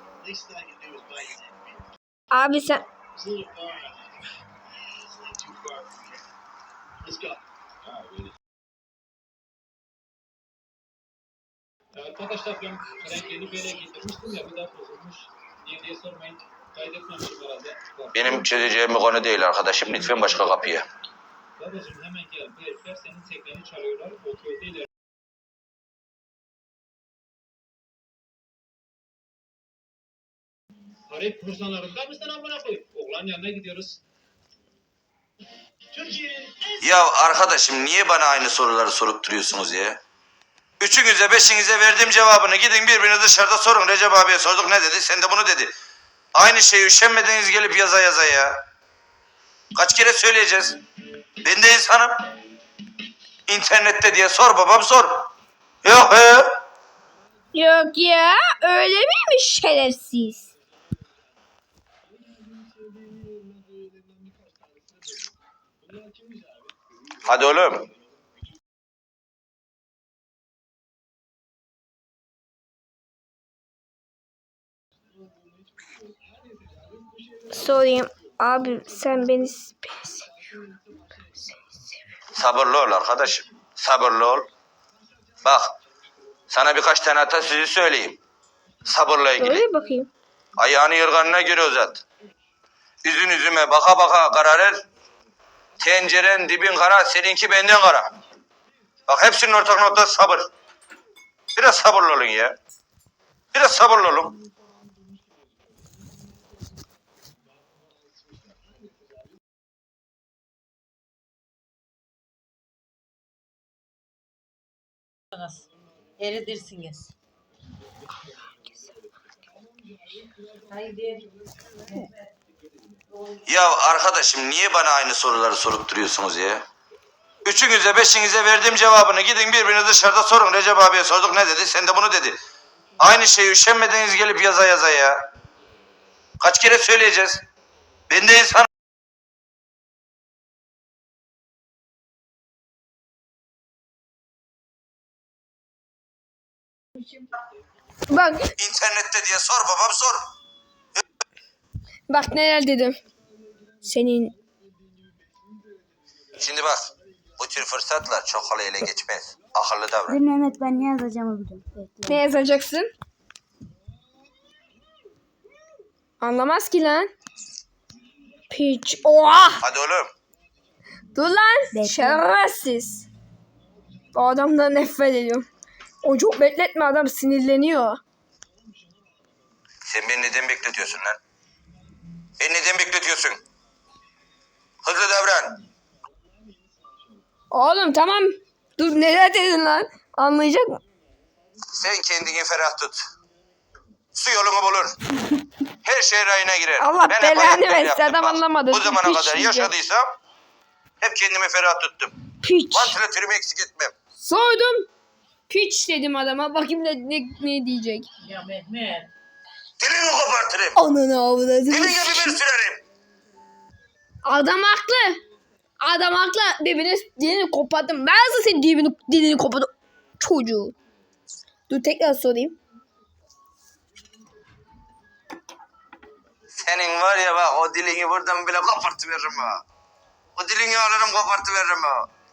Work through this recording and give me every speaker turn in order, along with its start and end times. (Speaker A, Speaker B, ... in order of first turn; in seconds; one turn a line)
Speaker A: 0.2-1.7
Speaker B: 2.3-2.8
Speaker A: 3.2-4.3
Speaker A: 5.1-6.1
Speaker A: 7.0-7.4
Speaker A: 11.9-18.3
Speaker C: 18.1-20.9
Speaker A: 21.6-24.9
Speaker A: 31.1-34.0
Speaker A: 35.9-36.8
Speaker C: 36.8-40.0
Speaker C: 40.8-45.7
Speaker C: 46.4-48.5
Speaker C: 49.8-50.8
Speaker C: 51.4-52.1
Speaker C: 53.5-55.2
Speaker C: 55.8-56.5
Speaker B: 57.5-60.5
Speaker A: 62.1-65.3
Speaker A: 65.8-66.7
Speaker C: 67.2-67.9
Speaker A: 75.6-77.5
Speaker B: 77.5-80.2
Speaker A: 80.4-81.3
Speaker C: 82.3-84.5
Speaker C: 85.4-85.7
Speaker C: 86.5-88.2
Speaker C: 88.9-89.7
Speaker B: 89.4-90.1
Speaker C: 90.6-92.0
Speaker C: 93.0-94.8
Speaker C: 95.8-98.1
Speaker C: 99.1-100.5
Speaker C: 101.5-102.5
Speaker C: 103.5-104.3
Speaker D: 115.3-115.7
Speaker D: 116.2-117.1
Speaker A: 120.1-120.7
Speaker D: 120.7-121.3
Speaker D: 121.9-122.2
Speaker C: 123.5-126.6
Speaker C: 127.5-132.4
Speaker C: 133.0-135.2
Speaker C: 136.4-137.4
Speaker C: 138.1-138.7
Speaker B: 147.0-147.3
Speaker B: 148.1-148.5
Speaker C: 148.6-150.2
Speaker B: 152.1-153.0
Speaker B: 153.8-154.3
Speaker C: 156.4-160.2
Speaker E: 160.1-162.2
Speaker B: 162.1-162.9
Speaker B: 166.2-167.1
Speaker B: 168.5-169.7
Speaker C: 169.6-170.1
Speaker B: 171.1-173.1
Speaker E: 171.7-172.2
Speaker B: 174.1-175.5
Speaker B: 176.0-178.0
Speaker C: 179.8-181.2
Speaker C: 182.4-183.4
Speaker C: 184.8-185.6
Speaker A: 186.5-187.1
Speaker B: 187.5-190.8
Speaker C: 191.7-193.0
Speaker C: 194.1-194.9
Speaker C: 195.8-200.1
Speaker B: 196.8-199.7
Speaker C: 201.0-202.2
Speaker B: 202.4-203.0
Speaker C: 202.7-203.9
Speaker B: 204.2-204.9
Speaker B: 205.5-208.1
Speaker D: 208.2-209.1
Speaker C: 209.8-210.8
Speaker B: 210.8-212.4
Speaker C: 211.7-212.8
Speaker B: 214.2-215.2
Speaker B: 215.8-220.8
Speaker B: 221.7-222.6
Speaker C: 226.6-229.6
Speaker C: 230.4-232.1